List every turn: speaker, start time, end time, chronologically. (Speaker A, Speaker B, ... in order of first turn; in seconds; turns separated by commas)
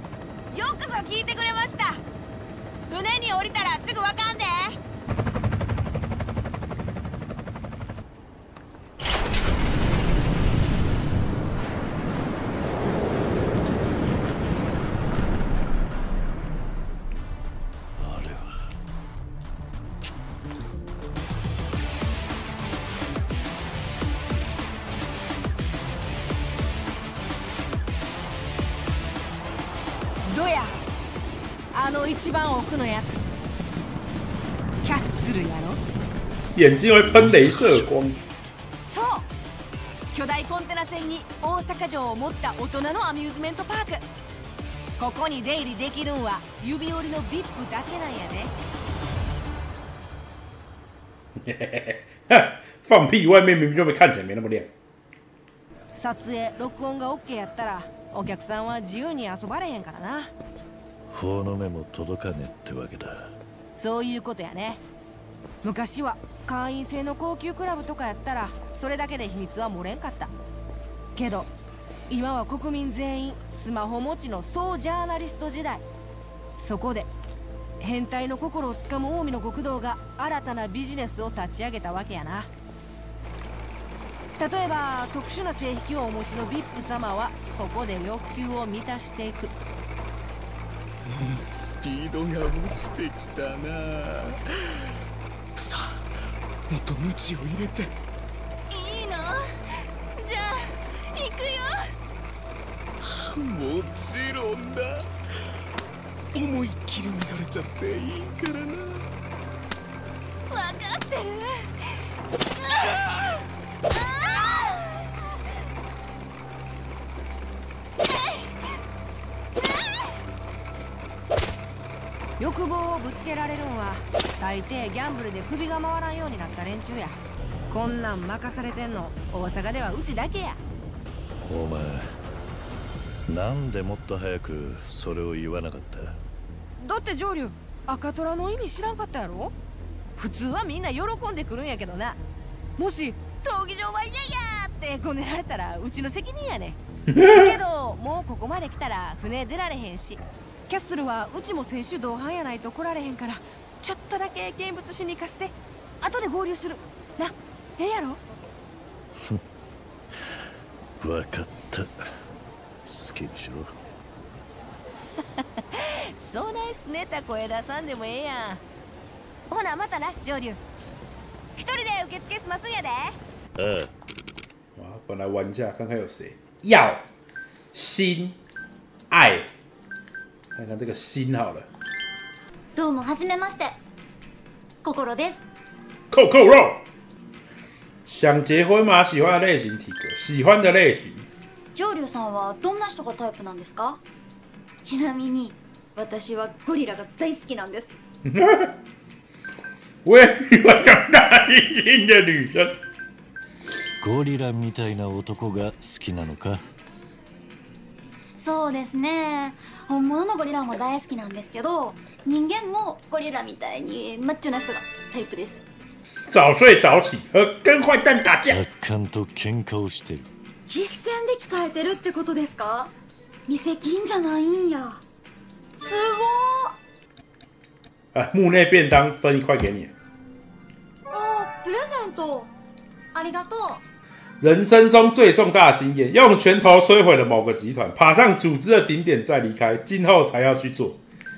Speaker A: 0.5-2.0, Speaker A: 2.9-4.8, Speaker B: 18.0-18.5, Speaker A: 30.2-30.8, Speaker A: 31.7-33.2, Speaker A: 34.8-35.8, Speaker C: 36.5-38.2, Speaker B: 37.1-37.8, Speaker A: 38.8-39.3, Speaker A: 40.1-44.0, Speaker A: 45.0-48.5, Speaker C: 51.5-54.7, Speaker A: 55.9-60.3, Speaker B: 61.1-63.3, Speaker A: 63.7-64.8, Speaker A: 65.6-70.3, Speaker A: 71.2-71.5, Speaker A: 72.1-75.8, Speaker A: 76.6-77.1, Speaker A: 77.8-82.5, Speaker A: 84.4-89.5, Speaker D: 91.2-94.2, Speaker D: 95.6-95.9, Speaker D: 96.7-97.9, Speaker A: 98.7-99.4, Speaker A: 100.2-101.8, Speaker D: 103.0-105.0, Speaker D: 106.3-109.1, Speaker A: 110.5-111.7, Speaker A: 122.4-127.2, Speaker A: 127.7-130.6, Speaker B: 131.4-132.0, Speaker B: 133.3-136.2, Speaker A: 136.8-139.5, Speaker A: 140.2-142.2, Speaker A: 142.8-158.2, Speaker C: 147.1-147.5, Speaker B: 161.0-161.9, Speaker B: 162.8-163.7, Speaker A: 165.6-168.6, Speaker A: 169.5-170.6, Speaker A: 171.6-173.2, Speaker B: 173.6-173.9, Speaker C: 174.8-177.0, Speaker C: 177.7-178.4, Speaker C: 179.1-179.5, Speaker C: 180.5-181.7, Speaker E: 182.8-183.8, Speaker E: 184.8-185.4, Speaker C: 186.1-186.8, Speaker C: 188.1-191.3, Speaker E: 191.7-194.0, Speaker E: 194.8-197.9, Speaker C: 198.2-198.7, Speaker C: 200.0-202.8, Speaker B: 204.0-206.6, Speaker E: 208.4-215.7, Speaker C: 216.3-218.6, Speaker B: 218.5-220.3, Speaker E: 220.7-222.9, Speaker E: 223.5-225.0, Speaker E: 225.7-226.7, Speaker C: 228.1-229.9, Speaker E: 231.1-232.5, Speaker E: 233.1-233.8, Speaker C: 234.4-241.0